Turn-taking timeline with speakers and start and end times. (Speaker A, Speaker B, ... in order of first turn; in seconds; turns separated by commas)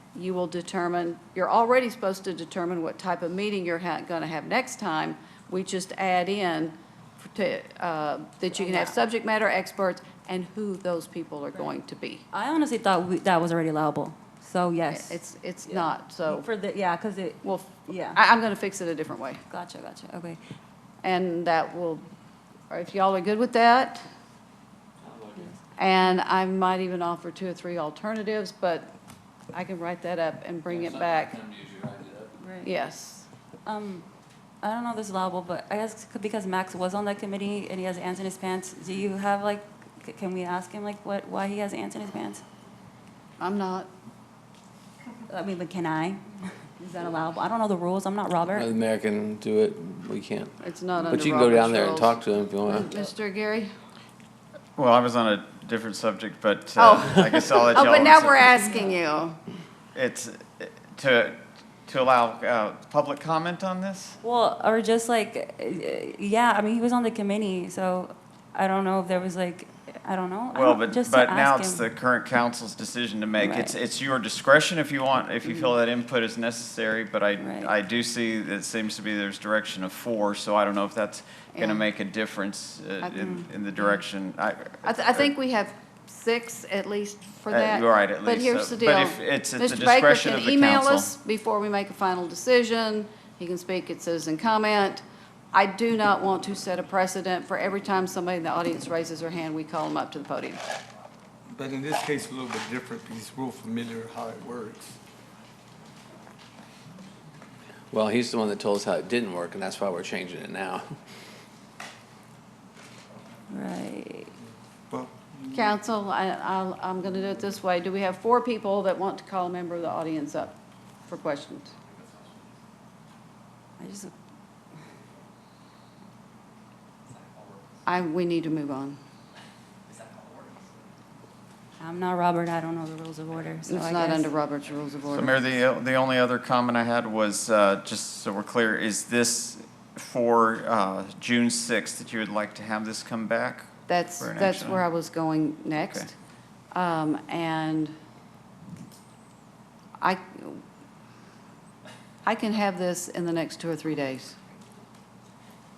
Speaker A: 0.1-12.2, Speaker B: 8.5-8.9, Speaker B: 12.3-18.2, Speaker A: 14.9-16.5, Speaker A: 17.4-19.4, Speaker B: 19.5-20.4, Speaker A: 21.0-22.0, Speaker A: 22.7-24.0, Speaker C: 25.0-25.4, Speaker A: 25.8-28.9, Speaker A: 29.5-31.4, Speaker C: 31.1-32.2, Speaker B: 32.4-32.7, Speaker A: 32.6-33.3, Speaker B: 33.6-34.0, Speaker B: 34.6-42.4, Speaker A: 43.4-43.9, Speaker B: 45.3-46.2, Speaker B: 46.8-48.7, Speaker C: 48.5-50.5, Speaker A: 50.6-53.7, Speaker C: 51.1-52.9, Speaker D: 54.8-58.5, Speaker A: 56.8-59.4, Speaker D: 59.9-64.2, Speaker B: 64.2-71.8, Speaker D: 70.5-85.3, Speaker B: 73.4-73.8, Speaker B: 77.4-77.7, Speaker A: 81.5-81.9, Speaker B: 83.2-83.5, Speaker A: 84.8-95.0, Speaker D: 87.5-91.1, Speaker A: 95.5-100.6, Speaker E: 101.5-105.0, Speaker C: 107.9-110.9, Speaker B: 113.5-114.3, Speaker E: 114.9-115.7, Speaker A: 115.5-120.5, Speaker A: 121.1-121.7, Speaker B: 123.8-124.1, Speaker A: 127.8-129.0, Speaker B: 131.8-134.3, Speaker A: 133.7-135.3, Speaker D: 135.1-144.8, Speaker A: 143.9-146.1, Speaker D: 145.7-146.1, Speaker A: 146.7-147.9, Speaker A: 150.0-150.6, Speaker A: 152.2-154.4